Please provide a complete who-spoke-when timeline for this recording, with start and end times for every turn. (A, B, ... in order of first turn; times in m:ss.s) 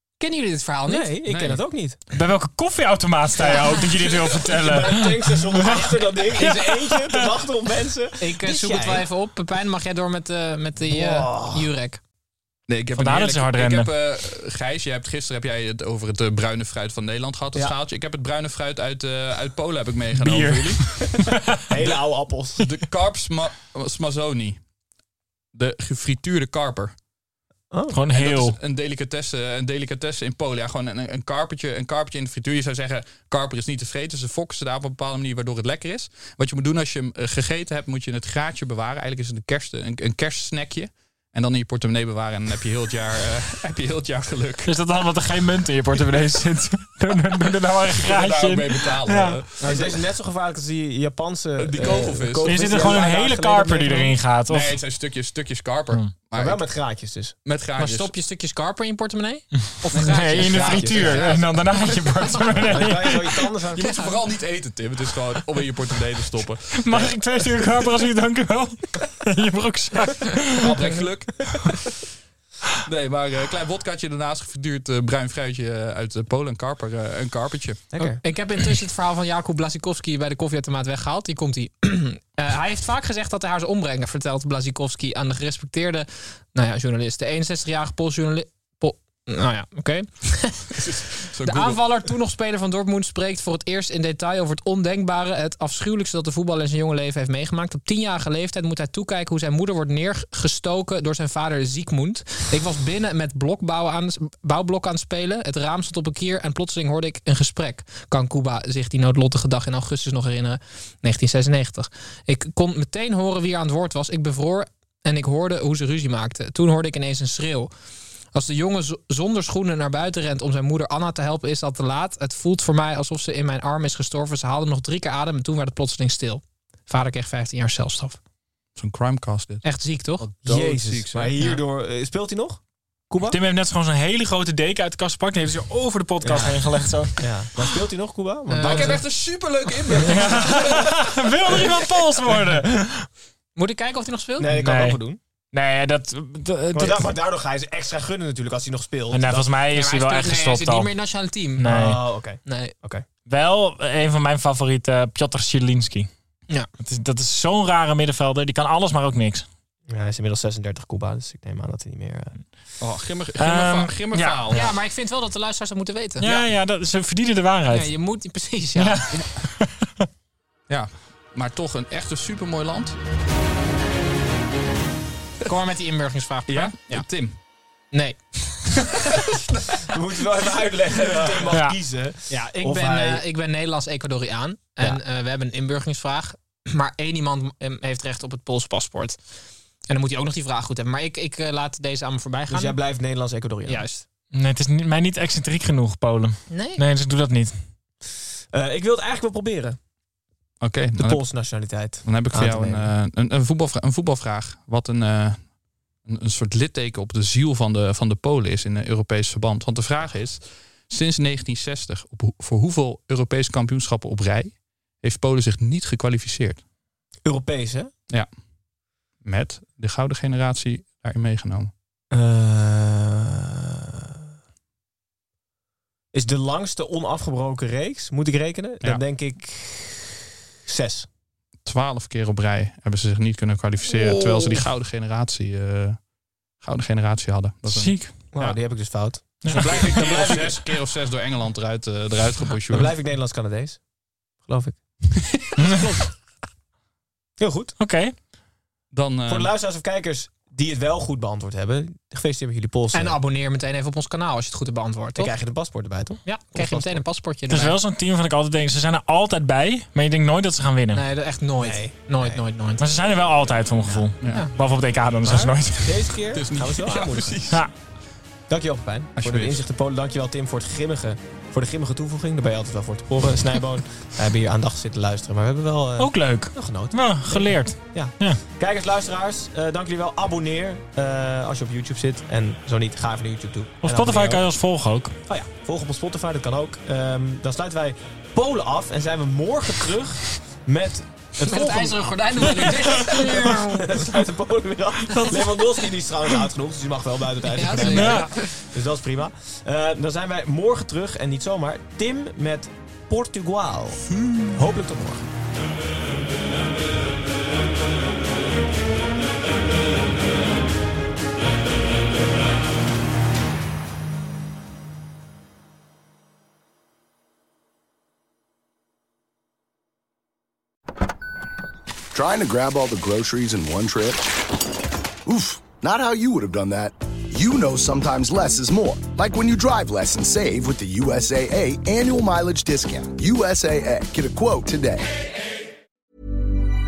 0:00.2-0:01.6 A
0:00.9-0:02.0 B
0:02.1-0:05.1 C
0:03.4-0:03.8 A
0:04.0-0:09.0 B
0:06.4-0:07.0 C
0:08.2-0:12.0 A
0:10.8-0:11.7 B
0:12.7-0:20.9 D
0:12.9-0:13.9 C
0:20.2-0:21.4 C
0:21.7-0:22.6 B
0:22.6-0:24.6 D
0:25.5-0:26.9 D
0:27.7-0:28.0 B
0:27.9-0:28.6 C
0:28.1-0:44.7 D
0:44.6-0:49.4 C
0:47.9-0:50.0 D
0:49.6-0:54.2 B
0:51.6-0:52.8 D
0:52.4-0:54.8 C
0:54.5-0:56.6 D
0:56.3-0:57.3 B
0:57.4-0:58.1 D
0:57.8-1:01.4 A
0:59.9-1:03.4 C
1:00.1-1:01.2 B
1:00.5-1:01.4 D
1:02.6-1:03.9 B
1:03.7-1:07.2 D
1:03.8-1:04.1 A
1:06.7-1:10.8 C
1:10.6-1:11.9 D
1:12.8-1:17.8 D
1:17.9-1:18.2 B
1:18.0-1:30.7 A
1:30.7-1:31.8 D
1:31.4-1:57.7 A
1:58.3-2:08.2 A
2:08.8-2:09.6 D
2:09.6-2:10.2 A
2:10.2-2:11.4 D
2:10.4-2:13.4 B
2:13.3-2:17.3 C
2:16.2-2:19.0 B
2:18.5-2:19.0 A
2:18.6-2:21.9 D
2:20.0-2:23.1 C
2:23.5-2:24.5 A
2:24.4-2:25.2 B
2:24.5-2:25.0 C
2:25.5-2:27.0 C
2:26.7-2:29.5 B
2:29.1-2:30.9 C
2:29.7-2:31.7 A
2:31.6-2:32.0 C
2:31.6-2:33.0 B
2:32.4-2:32.7 A
2:33.2-2:36.1 C
2:36.8-2:39.4 C
2:39.9-2:42.4 B
2:42.8-2:44.7 D
2:43.4-2:44.7 C
2:44.5-2:46.3 A
2:46.2-2:47.9 C
2:47.7-2:49.2 A
2:48.8-2:49.9 C
2:50.7-2:53.0 D
2:55.4-2:57.0 A
2:56.5-2:57.4 D
2:57.9-2:58.9 A
2:59.8-3:03.2 B
3:02.3-3:09.2 A
3:09.9-3:12.8 A
3:12.5-3:14.0 B
3:13.6-3:14.0 A
3:14.3-3:17.6 C
3:16.5-3:16.8 A
3:18.5-3:19.8 B
3:20.6-3:25.4 D
3:21.0-3:22.9 B
3:26.0-3:36.6 D
3:37.2-3:37.9 B
3:39.2-3:41.7 D
3:42.1-3:43.5 B
3:46.1-3:51.1 B
3:51.6-3:56.0 D
3:53.9-3:54.6 B
3:56.6-3:58.6 D
3:57.7-3:58.1 C
3:58.3-4:00.6 B
3:59.4-4:00.3 C
3:59.5-4:02.9 D
4:02.7-4:03.8 B
4:04.4-4:04.8 B
4:05.6-4:05.9 C
4:05.6-4:06.0 A
4:07.4-4:07.7 B
4:07.8-4:08.1 C
4:08.9-4:09.5 D
4:09.3-4:13.2 B
4:12.9-4:15.3 A
4:15.2-4:17.0 B
4:16.2-4:17.8 A
4:17.5-4:21.0 C
4:20.9-4:22.9 A
4:21.6-4:22.4 B
4:22.8-4:26.0 C
4:25.3-4:27.4 B
4:26.3-4:27.6 D
4:28.5-4:44.4 B
4:29.2-4:29.6 D
4:36.0-4:38.4 C
4:43.8-4:45.1 C
4:45.3-5:05.3 B
4:51.4-4:54.0 A
4:57.5-4:58.4 A
4:57.8-4:58.3 C
5:22.1-5:24.3 E
5:25.2-5:35.1 E